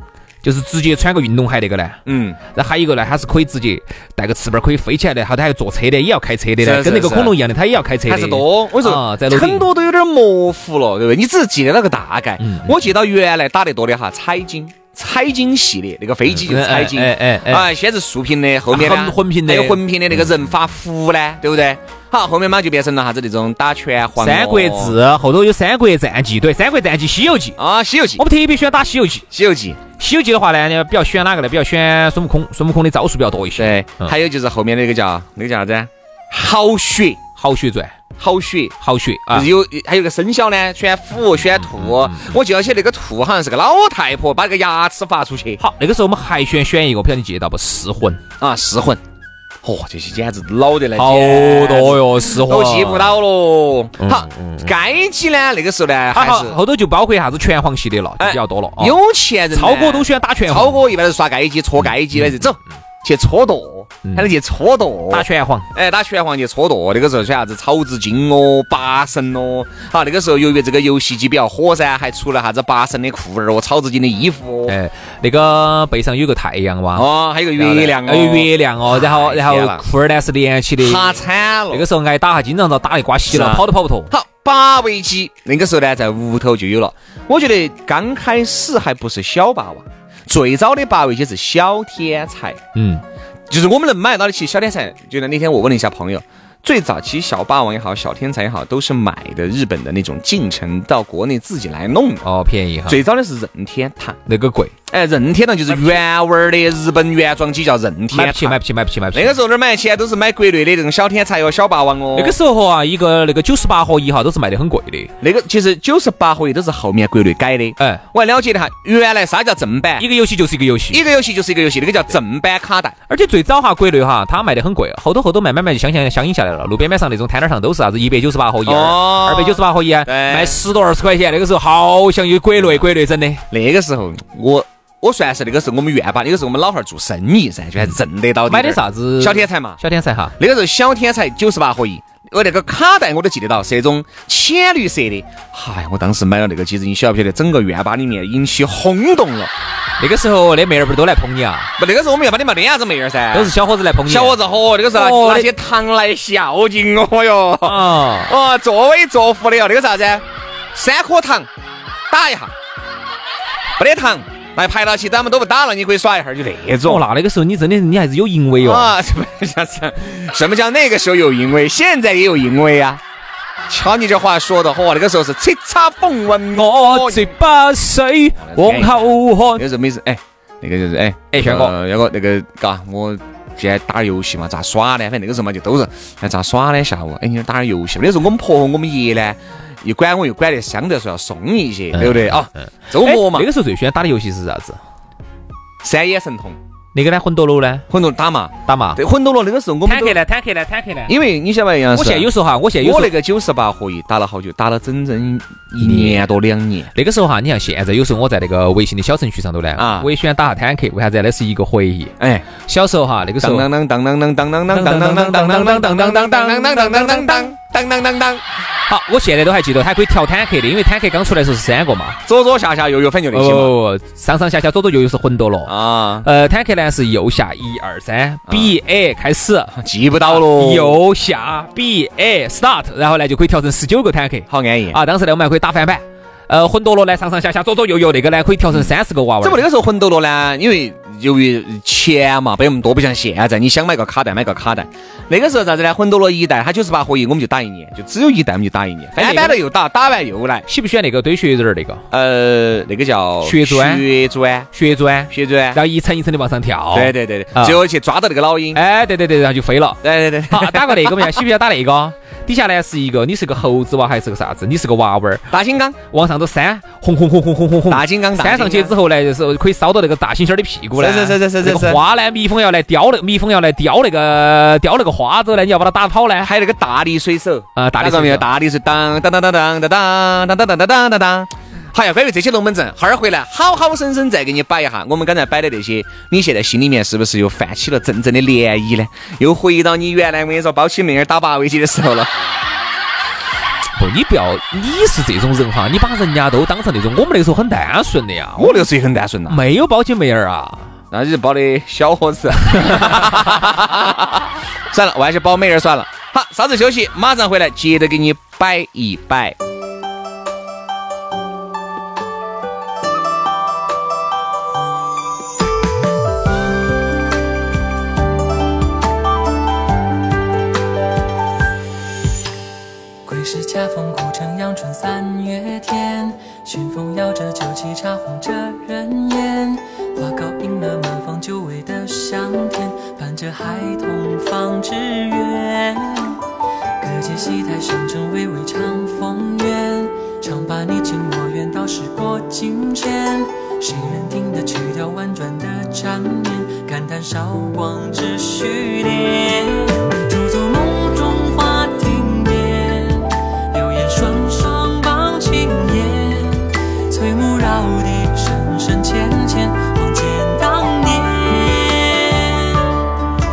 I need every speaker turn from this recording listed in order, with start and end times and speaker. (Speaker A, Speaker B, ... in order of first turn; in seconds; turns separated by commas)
Speaker A: 0.4-2.0, Speaker B: 2.0-2.4, Speaker A: 2.5-9.7, Speaker B: 6.6-7.4, Speaker B: 8.1-25.0, Speaker A: 12.4-12.8, Speaker A: 16.3-17.7, Speaker A: 18.7-19.8, Speaker A: 24.2-27.6, Speaker B: 27.6-28.2, Speaker A: 28.2-29.2, Speaker B: 29.3-29.8, Speaker A: 30.0-34.1, Speaker B: 33.6-37.2, Speaker A: 37.4-37.9, Speaker B: 38.2-38.8, Speaker A: 38.8-39.5, Speaker B: 39.3-45.6, Speaker A: 41.8-42.3, Speaker A: 45.6-48.2, Speaker B: 48.4-49.0, Speaker B: 49.6-56.6, Speaker A: 51.0-53.1, Speaker A: 54.0-54.7, Speaker A: 56.1-59.0, Speaker B: 58.2-74.8, Speaker A: 59.5-60.8, Speaker A: 62.1-62.4, Speaker A: 65.1-65.7, Speaker A: 74.7-81.2, Speaker B: 76.9-79.8, Speaker B: 80.8-81.8, Speaker A: 81.7-84.1, Speaker B: 83.3-92.6, Speaker A: 92.7-93.0, Speaker B: 93.5-102.2, Speaker A: 102.2-103.0, Speaker B: 102.9-104.2, Speaker A: 104.3-104.7, Speaker B: 104.9-108.6, Speaker A: 108.1-109.3, Speaker B: 109.1-112.4, Speaker A: 112.1-115.1, Speaker B: 115.2-120.1, Speaker A: 120.0-121.0, Speaker B: 120.9-123.0, Speaker A: 123.1-133.4, Speaker B: 128.6-130.6, Speaker B: 133.5-139.8, Speaker A: 138.5-140.3, Speaker B: 140.4-149.5, Speaker A: 150.0-151.7, Speaker B: 151.8-153.5, Speaker A: 153.3-154.4, Speaker B: 154.0-161.5, Speaker A: 154.9-155.5, Speaker A: 157.6-158.3, Speaker B: 162.1-162.5, Speaker B: 163.8-167.0, Speaker A: 166.8-168.9, Speaker B: 168.6-173.0, Speaker B: 173.7-177.3, Speaker A: 176.6-179.6, Speaker B: 178.4-193.5, Speaker A: 181.3-181.7, Speaker A: 191.9-192.3, Speaker A: 192.9-194.8, Speaker B: 195.8-196.6, Speaker A: 196.9-197.9, Speaker B: 197.9-200.2, Speaker A: 198.7-199.0, Speaker A: 199.8-201.1, Speaker B: 201.1-206.9, Speaker A: 201.9-203.1, Speaker A: 205.8-206.2, Speaker A: 206.9-213.7, Speaker B: 209.8-210.1, Speaker B: 212.2-212.4, Speaker B: 213.4-218.4, Speaker A: 214.7-217.5, Speaker A: 218.9-222.2, Speaker B: 222.2-223.7, Speaker A: 223.3-229.7, Speaker B: 225.7-226.3, Speaker B: 228.5-228.7, Speaker B: 229.7-231.0, Speaker A: 230.2-239.6, Speaker B: 234.5-235.0, Speaker B: 238.7-250.7, Speaker A: 249.2-249.6, Speaker A: 250.7-252.0, Speaker B: 252.1-254.7, Speaker A: 253.4-254.0, Speaker A: 254.7-257.8, Speaker B: 255.3-255.8, Speaker B: 256.9-258.8, Speaker A: 258.7-265.4, Speaker B: 260.0-261.4, Speaker B: 265.5-266.0, Speaker A: 266.1-276.5, Speaker B: 267.9-268.9, Speaker B: 270.9-272.0, Speaker B: 276.4-292.3, Speaker A: 277.8-278.4, Speaker A: 294.0-298.8, Speaker B: 298.6-299.6, Speaker A: 299.5-300.9, Speaker B: 301.1-309.6, Speaker A: 302.7-303.4, Speaker C: 323.2-336.4, Speaker C: 337.0-363.1